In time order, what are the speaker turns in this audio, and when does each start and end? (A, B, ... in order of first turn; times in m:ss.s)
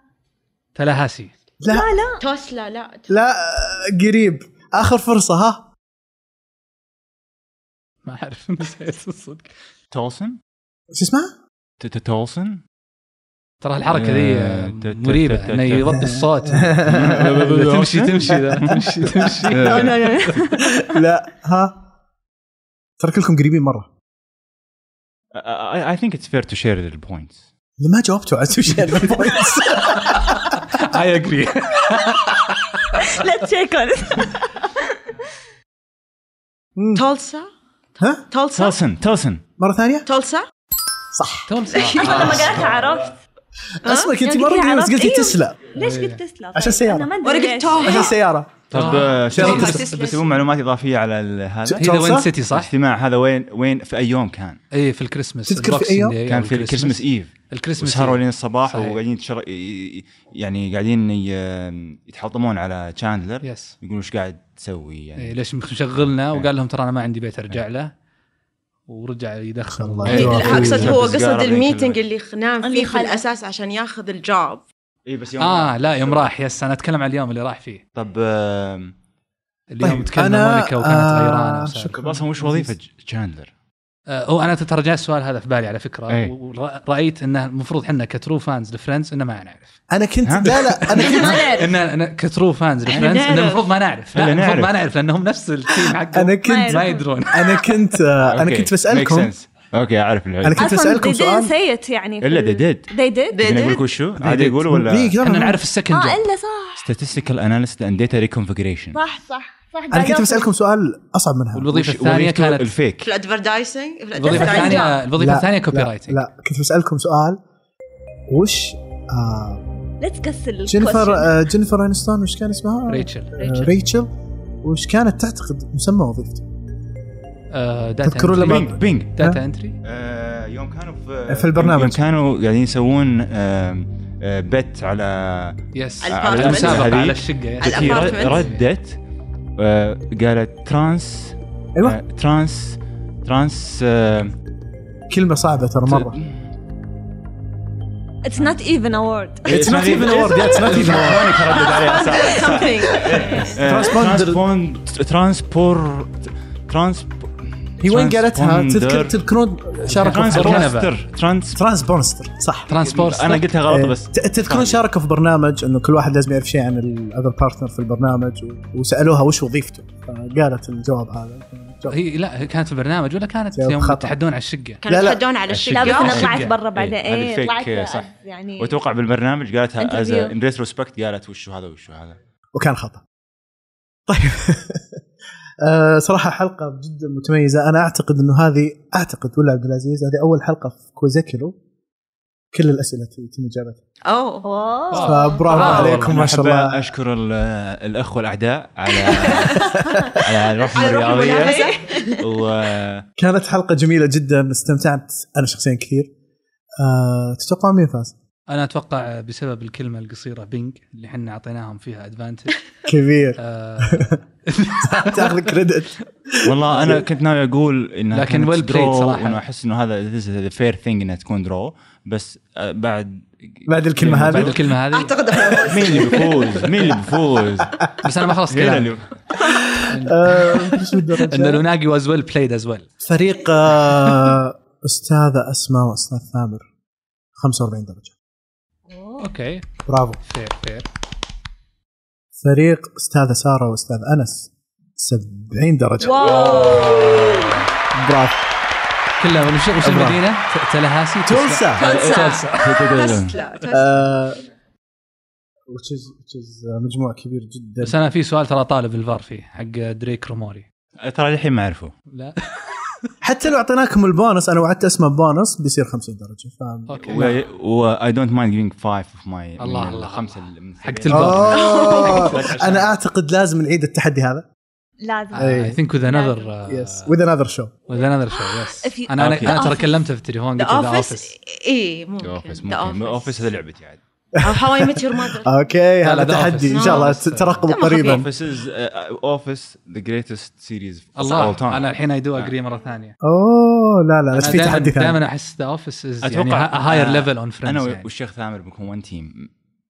0:00.8-0:01.3 A
0:01.6-0:01.9 B
0:01.7-0:02.2 C
0:02.2-0:03.1 D
0:03.1-0:05.7 B
0:08.0-0:09.5 A
0:09.9-0:10.4 E
0:10.9-0:11.3 B
0:11.8-0:12.6 E
0:13.6-0:20.3 A
0:13.9-0:16.1 E
0:16.0-0:17.5 B
0:16.8-0:18.9 E
0:19.5-0:20.2 E
0:19.6-0:21.0 C
0:19.6-0:21.8 B
0:23.0-0:23.9 B
0:25.3-0:27.4 E
0:27.8-0:30.4 B
0:29.8-0:33.2 A
0:32.9-0:35.0 C
0:36.8-0:37.0 B
0:37.0-0:37.5 D
0:38.3-0:38.8 D
0:38.5-0:39.4 E
0:39.6-0:40.1 B
0:40.1-0:40.5 D
0:41.1-0:41.5 B
0:41.5-0:42.7 A
0:41.8-0:43.2 C
0:41.8-0:42.1 D
0:43.8-0:45.7 B
0:43.8-0:44.4 D
0:44.4-0:48.1 C
0:45.8-0:46.2 A
0:46.6-0:47.1 B
0:47.2-0:48.2 D
0:47.8-0:49.8 B
0:48.7-0:49.8 A
0:48.7-0:51.9 E
0:48.8-0:50.4 D
0:51.6-0:52.3 B
0:51.8-0:52.7 A
0:52.5-0:54.6 E
0:54.7-0:59.0 A
0:55.5-0:56.2 B
0:56.3-1:05.4 E
1:03.4-1:03.8 A
1:05.2-1:07.9 A
1:08.9-1:10.7 A
1:09.7-1:11.0 B
1:10.1-1:12.0 E
1:10.1-1:14.6 D
1:12.6-1:13.2 C
1:15.1-1:16.3 E
1:15.4-1:17.8 A
1:18.0-1:18.9 E
1:19.7-1:22.0 A
1:19.8-1:22.7 B
1:21.9-1:23.5 E
1:24.1-1:29.8 A
1:29.9-1:31.6 B
1:30.2-1:30.6 E
1:30.9-1:31.7 C
1:31.1-1:37.6 A
1:32.9-1:33.6 D
1:32.9-1:33.4 E
1:34.1-1:34.7 E
1:35.8-1:39.3 B
1:36.4-1:37.2 C
1:38.3-1:40.7 E
1:40.4-1:41.5 B
1:40.6-1:43.7 C
1:42.2-1:42.9 E
1:43.3-1:43.9 D
1:43.4-1:45.1 E
1:44.2-1:45.6 B
1:45.2-1:46.2 A
1:45.9-1:46.9 C
1:46.8-1:49.0 E
1:48.9-1:50.5 C
1:49.9-1:51.7 B
1:51.5-1:52.7 A
1:51.7-1:53.1 E
1:53.0-1:55.0 D
1:54.2-1:56.2 A
1:54.4-1:55.0 C
1:55.2-1:57.4 B
1:58.3-1:59.7 B
2:00.0-2:01.4 C
2:00.7-2:04.1 B
2:02.9-2:03.7 A
2:04.6-2:06.4 B
2:07.5-2:09.8 A
2:08.0-2:09.4 B
2:08.4-2:09.1 E
2:09.8-2:19.0 E
2:11.3-2:12.0 B
2:15.7-2:18.6 A
2:16.0-2:17.0 D
2:17.6-2:18.5 D
2:19.6-2:24.3 E
2:25.1-2:26.2 B
2:25.9-2:26.4 E
2:28.2-2:29.6 C
2:29.4-2:31.5 B
2:29.5-2:39.2 E
2:30.4-2:31.2 C
2:31.5-2:33.9 D
2:31.9-2:33.3 C
2:33.4-2:34.4 B
2:37.8-2:40.7 B
2:39.8-2:40.9 A
2:40.0-2:41.6 E
2:41.6-2:42.7 B
2:42.7-2:43.5 A
2:42.8-2:44.8 E
2:43.7-2:52.0 B
2:51.9-2:54.8 A
2:53.5-2:54.2 B
2:54.8-2:56.3 D
2:54.8-2:55.2 B
2:55.5-3:02.2 E
2:55.7-2:58.8 C
2:56.0-2:56.6 A
2:59.8-3:00.4 C
3:02.6-3:03.0 B
3:04.1-3:05.0 B
3:05.6-3:11.5 B
3:12.5-3:13.8 B
3:14.1-3:14.5 D
3:14.4-3:15.6 C
3:14.9-3:16.4 A
3:15.0-3:16.9 B
3:15.5-3:16.0 D
3:15.8-3:23.1 E
3:18.9-3:19.7 D
3:19.6-3:20.3 B
3:19.8-3:20.2 C
3:20.7-3:22.2 C
3:20.8-3:22.1 D
3:23.2-3:26.1 B
3:26.8-3:28.2 B
3:28.5-3:32.6 A
3:32.9-3:34.2 B
3:33.4-3:35.6 A
3:34.8-3:37.0 B
3:36.4-3:44.6 E
3:38.1-3:39.4 A
3:43.7-3:44.6 B
3:44.2-3:45.1 A
3:44.9-3:46.5 D
3:45.5-3:46.9 B
3:45.7-3:47.8 E
3:48.0-3:49.0 A
3:48.5-3:49.0 E
3:49.4-3:51.6 B
3:49.8-3:52.9 A
3:53.0-3:56.7 B
3:57.4-3:58.2 B
3:58.9-3:59.2 C
3:59.2-3:59.7 A
3:59.9-4:00.2 B
4:00.2-4:00.9 A
4:02.4-4:06.5 B
4:06.0-4:07.7 C
4:06.1-4:07.1 D
4:06.5-4:07.4 A
4:07.9-4:08.4 B
4:09.2-4:13.1 A
4:09.8-4:10.2 B
4:11.3-4:11.8 B
4:11.8-4:13.4 E
4:11.8-4:14.0 D
4:13.7-4:14.4 B
4:15.7-4:18.0 B
4:17.8-4:20.7 A
4:21.0-4:21.9 E
4:22.1-4:22.8 A
4:23.2-4:27.2 B
4:26.9-4:27.4 A
4:27.1-4:32.9 E
4:29.6-4:31.6 A
4:31.1-4:34.5 B
4:31.5-4:32.5 D
4:35.0-4:36.5 C
4:35.3-4:37.2 A
4:35.4-4:35.8 B
4:36.7-4:37.8 B
4:37.9-4:41.3 A
4:38.5-4:39.9 C
4:39.2-4:39.6 E
4:40.6-4:43.5 D
4:42.2-4:44.0 E
4:44.4-4:48.3 B
4:44.4-4:45.5 D
4:46.0-4:47.7 A
4:46.7-4:48.3 D
4:48.0-4:52.5 E
4:51.2-4:53.2 A
4:53.2-4:55.2 B
4:54.3-4:58.1 A
4:56.2-4:59.5 E